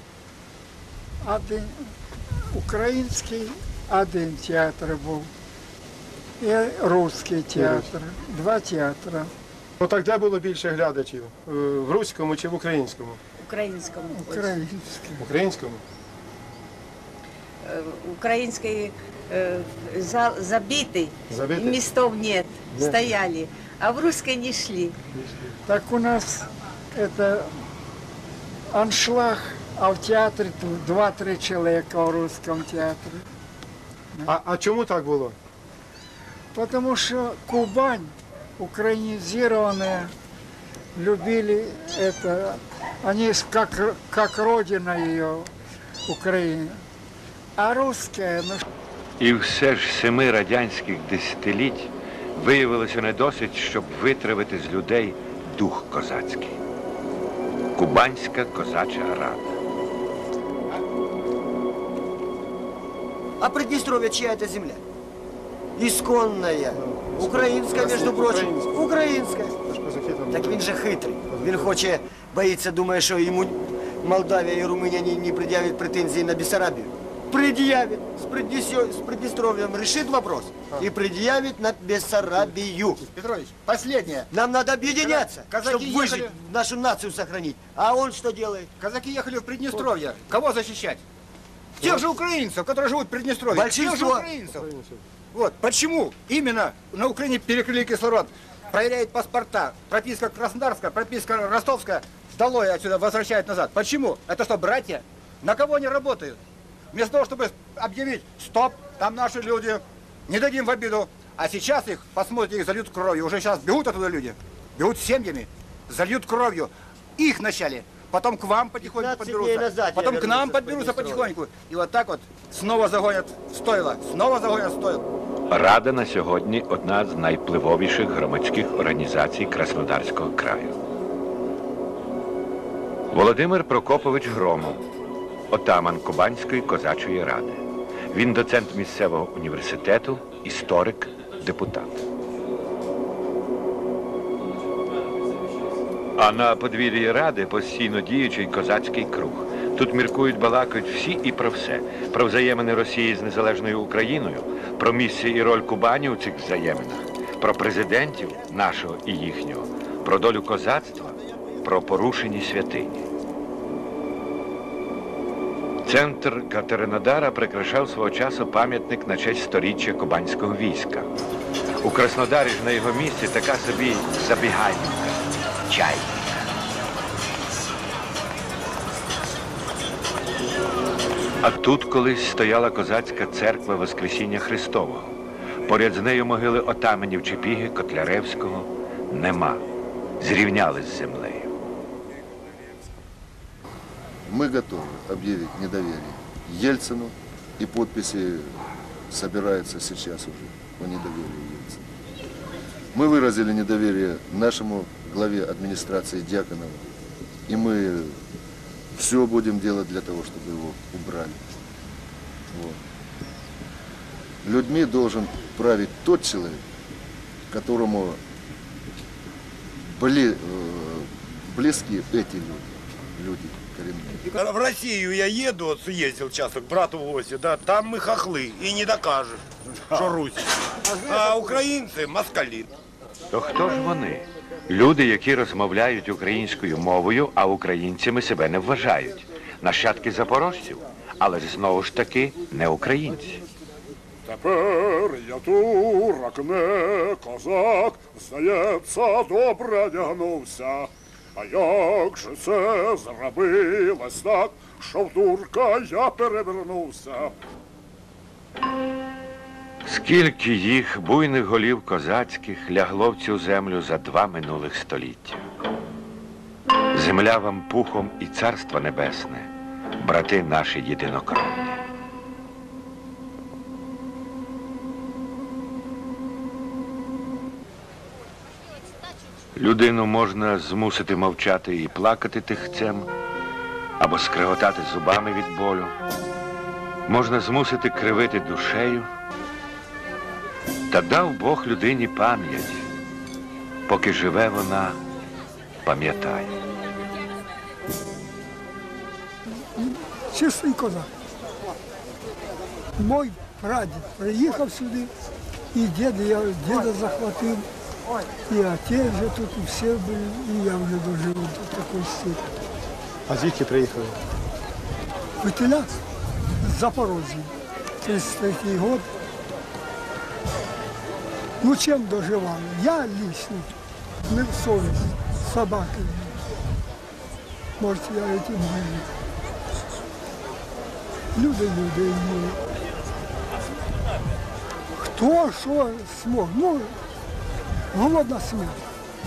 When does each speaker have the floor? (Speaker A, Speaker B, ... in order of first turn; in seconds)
Speaker A: 1.2-1.8, 2.5-5.3, 6.4-9.3, 14.2-15.2, 25.6-27.6, 28.7-33.3, 36.5-40.1, 41.0-45.5, 46.1-46.8, 47.6-48.6, 299.8-301.1, 303.0-305.1, 305.7-307.7, 308.5-312.4, 315.4-315.9, 316.6-317.5, 318.0-319.1, 321.6-323.7, 324.3-326.4, 327.8-329.1, 331.4-332.6, 335.0-337.0, 337.9-338.8
Speaker B: 7.5-7.9, 9.8-13.2, 15.2-15.8, 21.3-21.8, 22.7-23.0, 25.2-25.5, 34.3-35.4, 66.8-68.8, 69.7-70.6, 71.3-71.7, 94.6-95.0, 313.3-314.2
Speaker C: 13.4-14.6, 17.6-25.0
Speaker D: 49.2-56.6, 57.8-59.6, 125.5-130.8, 133.1-134.8, 135.5-142.0, 146.2-163.1, 165.8-171.1, 171.8-176.4, 181.4-189.6, 190.2-191.5, 233.3-243.4, 259.9-265.4, 266.9-271.8, 279.6-283.1, 284.0-285.9, 287.1-289.1, 290.9-292.9, 293.9-295.0, 295.9-296.6
Speaker E: 63.4-64.8, 65.8-69.6, 70.3-83.1, 84.3-88.7, 93.5-94.3, 118.8-121.3
Speaker F: 83.1-84.3, 85.0-86.3, 88.8-91.0, 91.8-94.7, 95.3-106.4, 106.9-125.0
Speaker G: 194.3-201.8, 202.9-206.9, 207.5-208.2, 208.9-211.4, 212.5-212.8, 214.4-216.6, 217.5-218.2, 219.9-224.3
Speaker H: 224.3-232.7
Speaker I: 244.3-257.4